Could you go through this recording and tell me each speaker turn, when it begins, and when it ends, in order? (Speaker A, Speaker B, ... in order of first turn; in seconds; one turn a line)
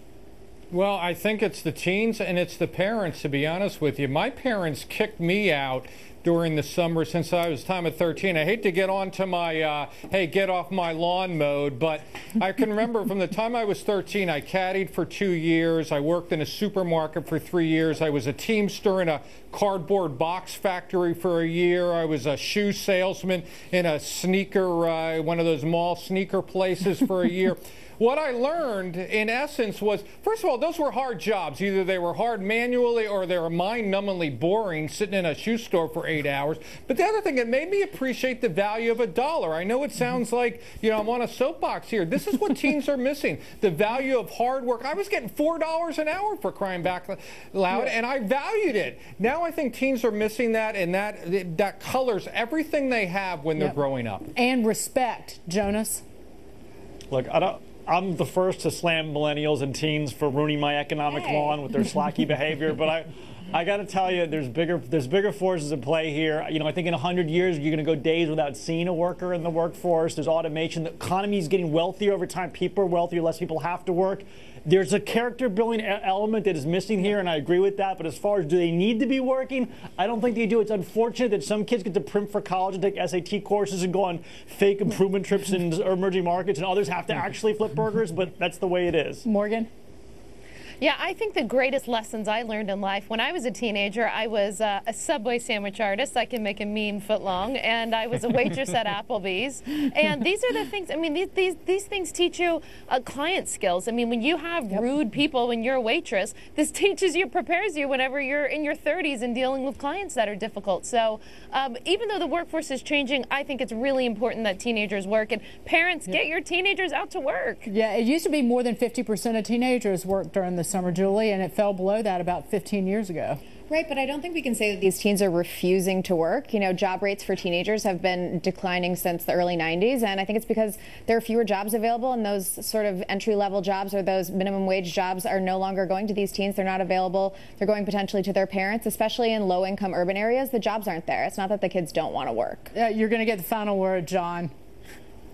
Speaker A: 0.7-54.3
Speaker B: 54.3-56.0
Speaker C: 57.1-89.2
Speaker D: 61.1-61.6
Speaker B: 89.2-89.7
Speaker E: 90.8-117.6
Speaker B: 117.7-123.4
Speaker D: 123.7-142.7
Speaker B: 142.7-144.5